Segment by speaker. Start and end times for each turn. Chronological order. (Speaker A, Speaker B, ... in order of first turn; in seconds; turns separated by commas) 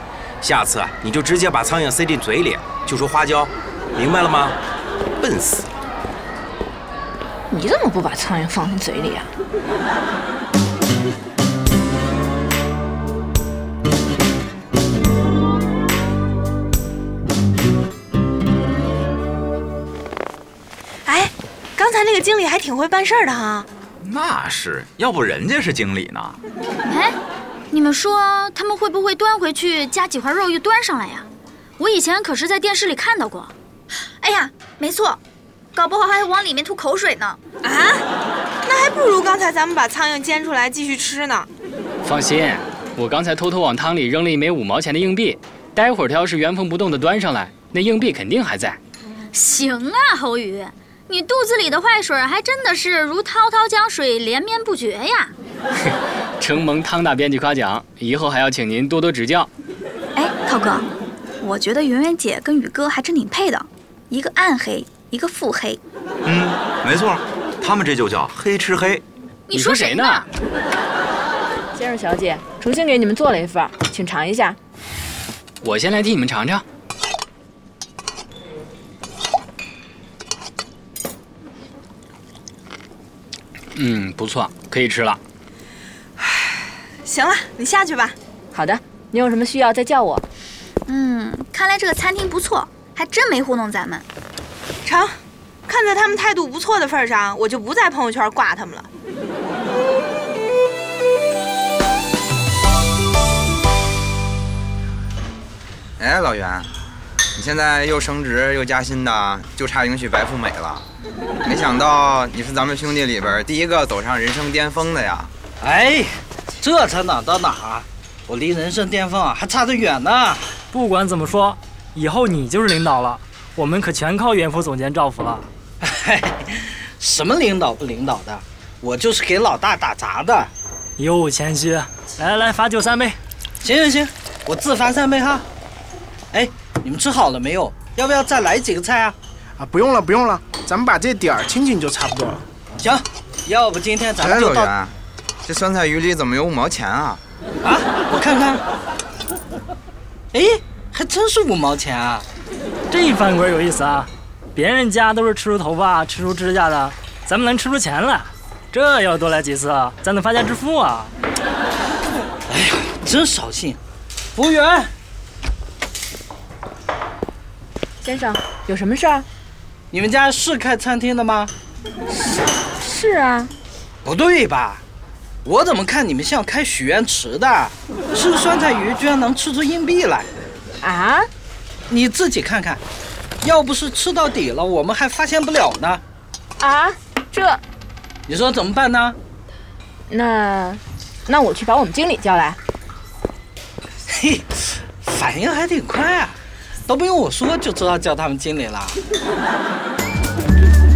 Speaker A: 0.4-4.6, Speaker A: 5.2-5.7, Speaker B: 7.5-9.3, Speaker C: 21.1-23.7, Speaker D: 24.0-26.4, Speaker E: 26.9-27.2, Speaker E: 27.7-31.3, Speaker E: 31.8-33.5, Speaker F: 34.2-35.2, Speaker F: 35.8-37.4, Speaker C: 37.6-38.0, Speaker C: 38.6-41.5, Speaker G: 42.0-48.8, Speaker E: 49.3-55.3, Speaker G: 56.4-59.5, Speaker F: 60.2-60.9, Speaker F: 61.4-65.8, Speaker D: 66.2-69.0, Speaker E: 69.5-70.3, Speaker G: 69.5-70.3, Speaker B: 71.8-74.6, Speaker G: 75.6-76.6, Speaker G: 83.8-85.2, Speaker C: 87.0-88.2, Speaker B: 88.5-90.2, Speaker F: 90.9-94.0, Speaker C: 94.9-95.1, Speaker C: 95.7-98.9, Speaker H: 106.0-106.7, Speaker H: 107.3-110.8, Speaker H: 111.4-115.3, Speaker I: 115.6-120.5, Speaker J: 120.7-125.5, Speaker I: 125.8-130.5, Speaker J: 131.0-133.2, Speaker I: 133.6-135.5, Speaker I: 136.3-139.2, Speaker K: 139.6-142.4, Speaker I: 142.8-144.7, Speaker H: 144.2-147.2, Speaker I: 147.6-148.7, Speaker I: 150.3-152.2, Speaker J: 152.9-161.1, Speaker I: 162.5-163.8, Speaker I: 164.3-164.9, Speaker B: 168.0-169.2, Speaker I: 169.9-171.5, Speaker B: 172.8-173.5, Speaker I: 174.1-174.8, Speaker I: 175.4-180.3, Speaker B: 180.8-181.3, Speaker I: 181.9-182.8, Speaker I: 183.4-186.0, Speaker B: 186.6-187.6, Speaker I: 188.3-189.2, Speaker B: 190.1-192.6, Speaker I: 194.1-196.4, Speaker I: 196.9-199.0